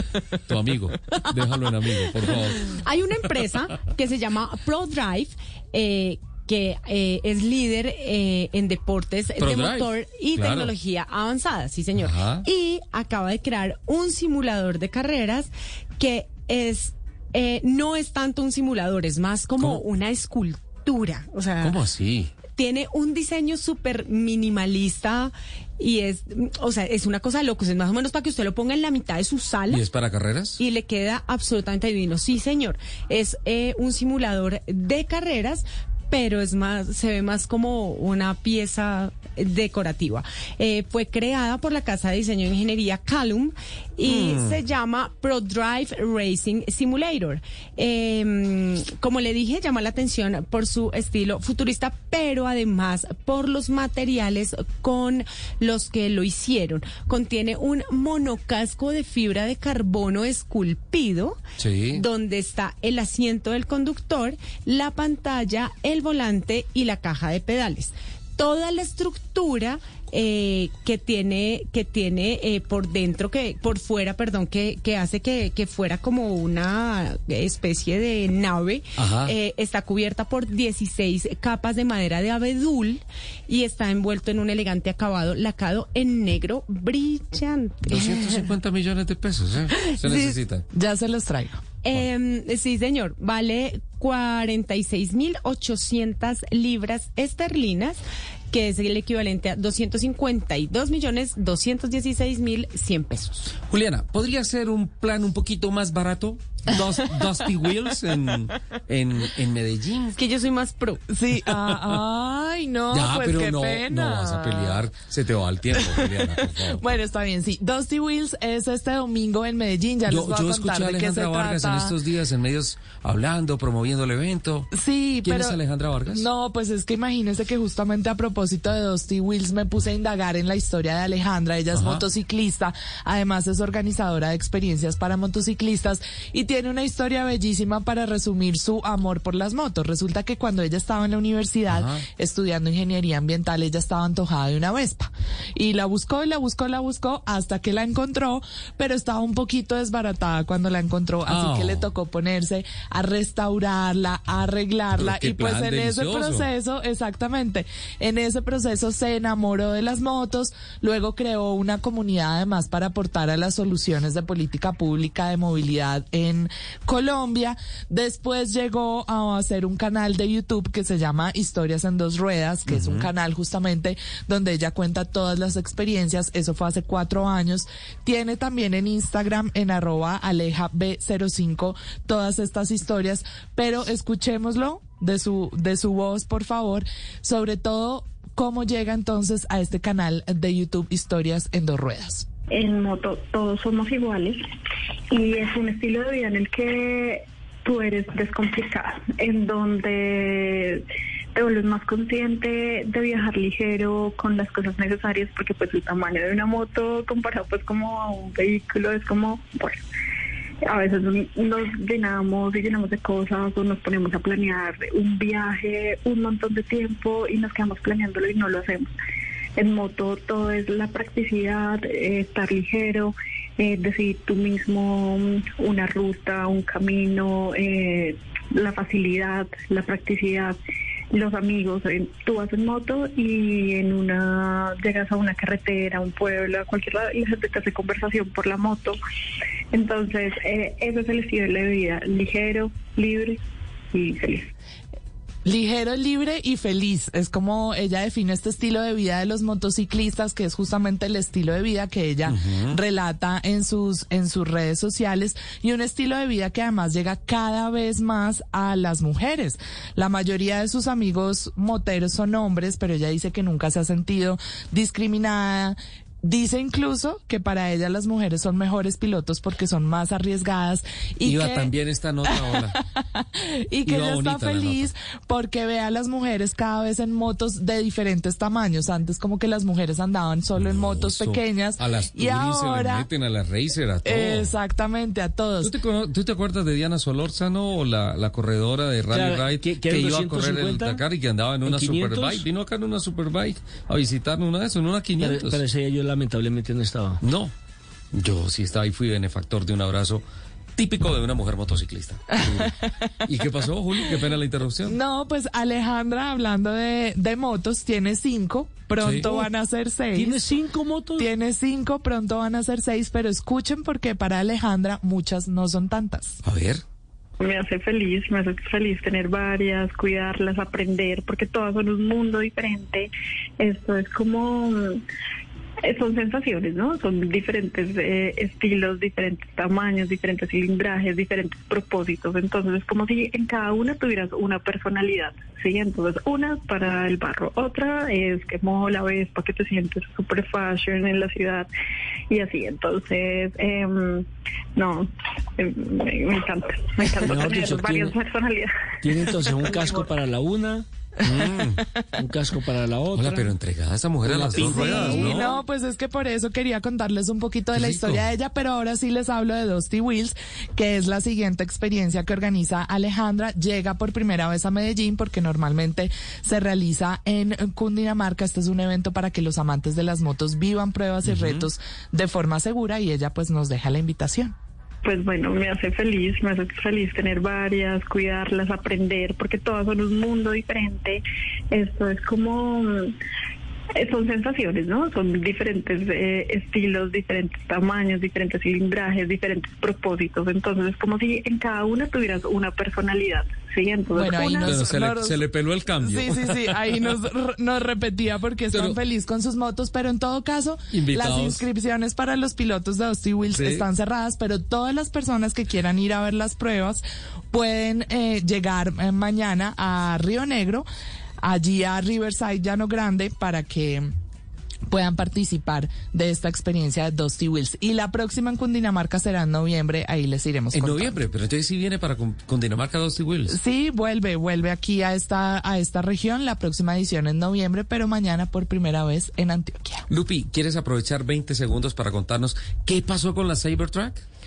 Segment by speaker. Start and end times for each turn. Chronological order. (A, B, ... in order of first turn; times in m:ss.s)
0:00.5-0:02.7 A
0:02.2-0:21.8 B
0:09.4-0:10.7 A
0:12.0-0:12.4 A
0:21.6-0:22.3 A
0:22.5-0:29.8 B
0:29.7-0:30.6 A
0:30.6-1:01.4 B
0:44.0-0:44.6 A
1:01.6-1:02.0 A
1:01.9-1:28.5 B
1:19.0-1:19.3 A
1:27.9-1:30.6 A
1:29.7-1:30.4 B
1:30.7-1:31.6 C
1:31.8-1:43.5 B
1:43.7-1:50.2 A
1:50.2-1:51.0 B
1:51.1-1:54.8 C
1:51.5-1:52.0 A
1:52.9-1:56.8 A
1:56.7-2:01.9 C
2:00.1-2:04.7 A
2:04.7-2:05.6 C
2:05.2-2:06.2 A
2:06.1-3:12.2 C
2:11.7-2:12.0 A
2:21.7-2:22.0 A
2:31.2-2:31.9 A
2:34.9-2:36.5 A
2:52.7-2:53.1 A
3:12.5-3:14.4 D
3:15.1-3:20.8 D
3:21.3-3:29.8 D
3:30.7-3:38.9 D
3:39.6-3:50.6 D
3:51.1-3:59.0 D
3:59.7-4:03.4 D
4:03.9-4:04.5 D
4:05.4-4:31.7 C
4:12.2-4:12.8 A
4:31.2-4:32.8 A
4:32.3-4:32.6 C
4:33.7-4:43.0 C
4:33.8-4:34.9 A
4:40.6-4:44.5 A
4:44.0-4:45.7 C
4:45.6-4:55.6 A
4:49.1-4:51.0 E
4:51.6-4:52.4 E
4:55.2-4:57.2 E
4:57.2-4:57.5 A
4:58.1-5:00.2 A
5:00.8-5:02.7 A
5:03.2-5:05.0 A
5:04.9-5:10.4 C
5:09.0-5:09.3 A
5:10.1-5:11.3 E
5:11.2-5:16.4 C
5:16.4-5:16.8 A
5:17.4-5:23.1 D
5:23.6-5:25.0 D
5:25.8-5:41.7 D
5:42.3-5:44.2 D
5:44.8-5:48.7 D
5:47.2-5:48.2 E
5:49.0-5:50.8 E
5:49.7-5:50.0 D
5:51.2-5:51.8 A
5:52.2-5:53.5 E
5:53.1-5:55.6 A
5:54.2-5:55.5 E
5:54.6-6:14.5 C
5:57.7-5:58.2 A
6:11.2-6:11.7 A
6:15.0-6:23.1 D
6:24.0-6:34.7 D
6:34.1-6:35.4 C
6:34.6-6:36.8 A
6:36.0-6:50.9 C
6:38.7-6:39.0 A
6:40.9-6:41.6 A
6:43.5-6:43.8 A
6:51.4-6:54.1 C
6:54.9-7:01.2 C
7:00.7-7:03.6 A
7:03.5-7:10.0 C
7:10.1-7:14.2 A